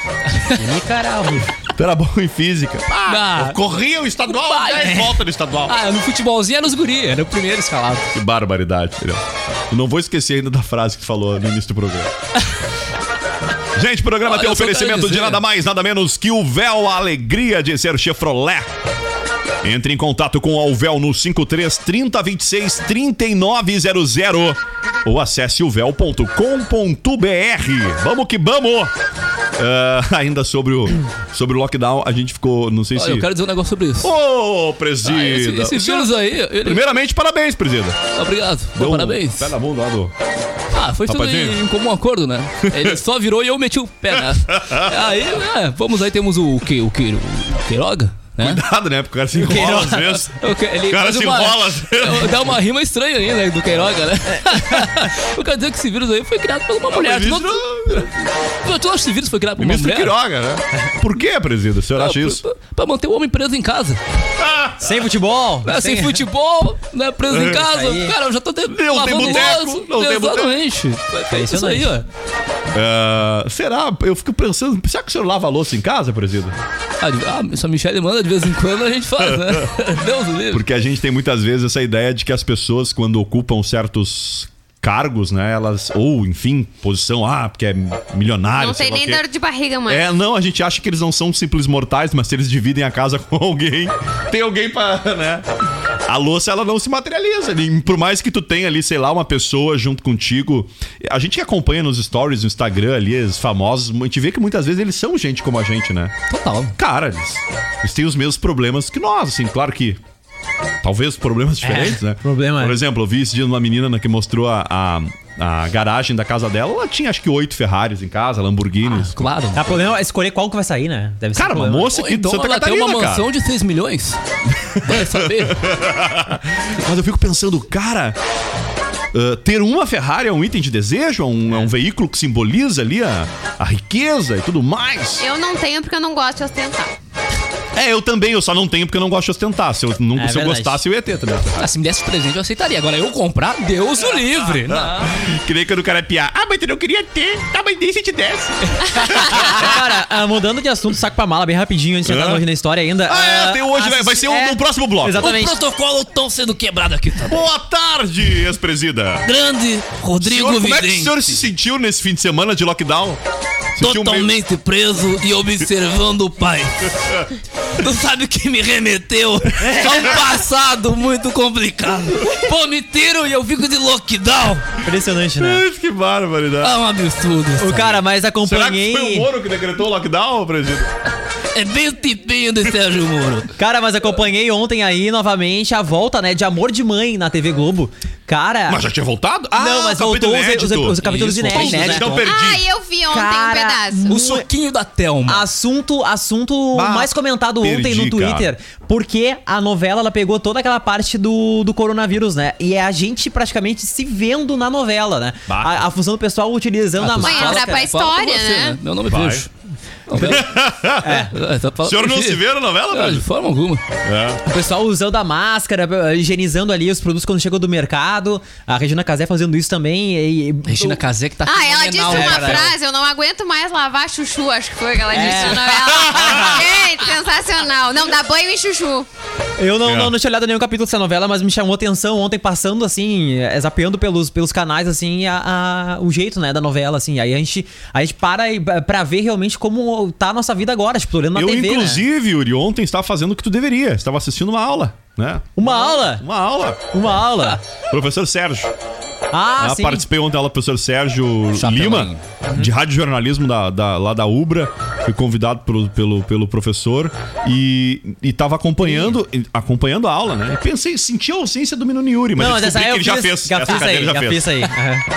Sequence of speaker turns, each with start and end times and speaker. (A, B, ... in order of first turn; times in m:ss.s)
0:00.3-0:00.6 A
0:00.6-0:01.5 B
0:01.7-0:05.8 C
0:03.0-0:03.6 A
0:04.2-0:08.1 A
0:08.1-0:12.1 C
0:13.7-0:18.7 C
0:14.2-0:15.4 A
0:19.6-0:28.9 C
0:29.6-0:33.3 C
0:33.0-0:34.1 A
0:34.0-0:38.0 C
0:35.0-0:36.8 A
0:38.1-0:39.5 A
0:38.8-0:40.1 C
0:40.7-0:48.6 A
0:41.1-0:41.6 C
0:42.6-0:43.0 C
0:44.1-0:45.0 C
0:48.4-0:50.3 C
0:49.4-0:50.0 B
0:49.5-1:00.1 A
0:50.8-0:52.4 C
0:54.5-0:54.8 B
0:56.9-0:58.1 C
0:59.6-1:02.4 C
1:02.0-1:04.0 A
1:04.4-1:05.0 C
1:04.8-1:06.2 B
1:05.6-1:12.0 A
1:07.3-1:07.6 C
1:07.6-1:08.1 B
1:08.7-1:10.6 C
1:11.3-1:11.9 B
1:12.7-1:16.6 C
1:17.0-1:20.6 A
1:19.3-1:19.6 C
1:20.5-1:29.2 C
1:28.6-1:30.0 D
1:29.9-1:35.5 C
1:36.0-1:46.1 C
1:46.3-1:46.7 A
1:46.8-1:50.0 C
1:50.8-1:59.2 C
1:51.6-1:52.8 B
1:58.8-1:59.9 A
1:59.5-2:01.9 B
2:01.3-2:03.3 C
2:01.9-2:04.2 A
2:04.5-2:08.2 C
2:04.8-2:05.7 A
2:09.1-2:15.2 C
2:15.2-2:16.9 D
2:17.7-2:21.6 C
2:20.1-2:20.8 B
2:21.6-2:25.1 A
2:24.7-2:29.8 C
2:29.3-2:35.5 B
2:32.0-2:32.4 C
2:33.0-2:35.3 C
2:35.2-2:37.4 A
2:37.2-2:39.3 C
2:39.2-2:41.4 A
2:40.2-2:43.2 C
2:43.7-2:44.3 C
2:43.8-2:47.2 A
2:47.8-2:54.7 A
2:49.8-2:50.2 C
2:54.8-2:55.6 B
2:55.4-2:56.8 C
2:56.6-2:58.0 A
2:57.6-2:59.3 B
2:58.4-3:00.9 C
3:01.5-3:03.5 A
3:03.6-3:08.8 B
3:08.7-3:12.6 C
3:09.5-3:12.2 B
3:11.0-3:12.3 A
3:12.2-3:14.1 D
3:13.1-3:14.5 B
3:14.1-3:15.4 A
3:15.3-3:27.8 B
3:16.7-3:18.5 C
3:25.5-3:25.8 C
3:27.0-3:29.5 A
3:27.2-3:28.8 D
3:29.1-3:29.4 C
3:30.1-3:30.5 A
3:30.1-3:31.3 C
3:31.0-3:31.3 B
3:31.3-3:33.8 A
3:31.8-3:33.2 C
3:34.0-3:34.4 C
3:34.4-3:41.0 B
3:40.7-3:42.7 A
3:41.4-3:49.1 D
3:42.0-3:42.7 B
3:45.1-3:46.6 B
3:45.2-3:45.6 A
3:49.6-4:02.0 B
3:49.8-3:50.1 C
4:01.3-4:06.8 C
4:05.6-4:06.2 B
4:06.9-4:07.6 B
4:07.9-4:08.7 C
4:09.3-4:10.0 B
4:09.6-4:24.7 C
4:11.5-4:12.2 A
4:18.8-4:19.1 B
4:22.4-4:25.0 B